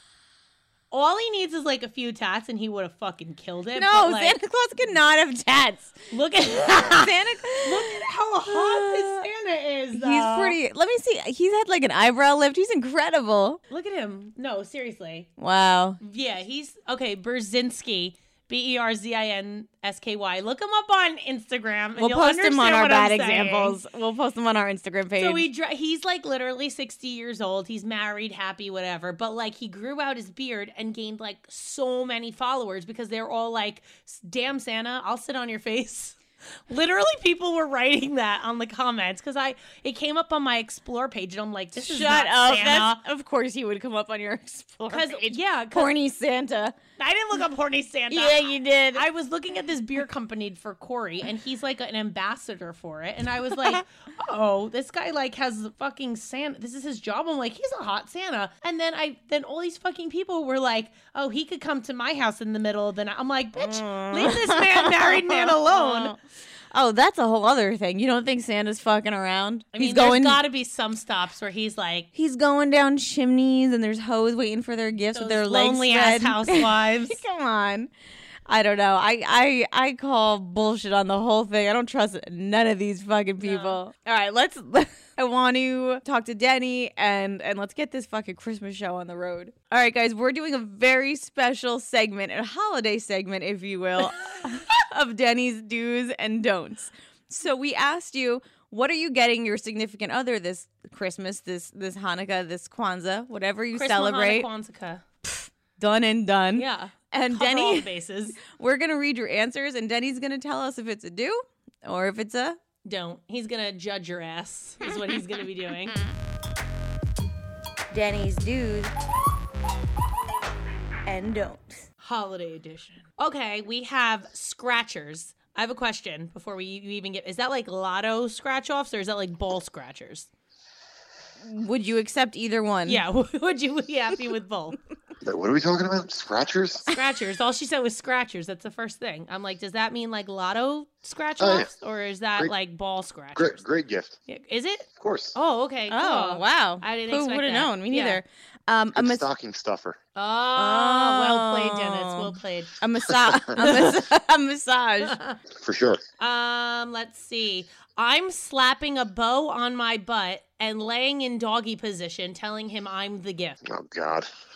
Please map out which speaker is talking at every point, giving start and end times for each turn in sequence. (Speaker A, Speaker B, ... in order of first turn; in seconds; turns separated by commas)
Speaker A: 0.9-4.4, Speaker B: 3.8-6.0, Speaker A: 6.1-10.6, Speaker B: 6.5-9.3, Speaker B: 9.9-13.6, Speaker A: 13.7-15.3, Speaker B: 15.4-16.0, Speaker A: 16.0-23.8, Speaker B: 22.0-25.5, Speaker A: 25.2-43.0, Speaker B: 41.8-46.8, Speaker A: 44.9-45.9, Speaker A: 47.0-66.1, Speaker B: 48.1-49.0, Speaker B: 63.6-66.2, Speaker B: 66.7-70.4, Speaker A: 69.7-72.1, Speaker B: 72.1-77.9, Speaker A: 75.1-77.2, Speaker B: 78.5-104.5, Speaker A: 83.4-83.8, Speaker A: 103.7-105.0, Speaker B: 105.2-112.6, Speaker A: 106.6-108.4, Speaker A: 112.8-116.0, Speaker B: 117.9-118.9, Speaker B: 121.0-121.8, Speaker A: 122.0-130.3, Speaker B: 131.4-133.0, Speaker A: 132.9-134.8, Speaker C: 135.2-136.9, Speaker A: 136.9-143.6, Speaker C: 141.4-141.7, Speaker C: 143.4-144.2, Speaker A: 144.3-148.2, Speaker C: 145.0-145.3, Speaker B: 145.9-149.3, Speaker C: 148.9-150.0, Speaker A: 150.2-152.8, Speaker B: 150.6-155.2, Speaker C: 153.2-153.7, Speaker A: 153.6-154.0, Speaker A: 155.0-155.4, Speaker C: 155.6-156.0, Speaker A: 156.2-163.6, Speaker C: 163.7-164.3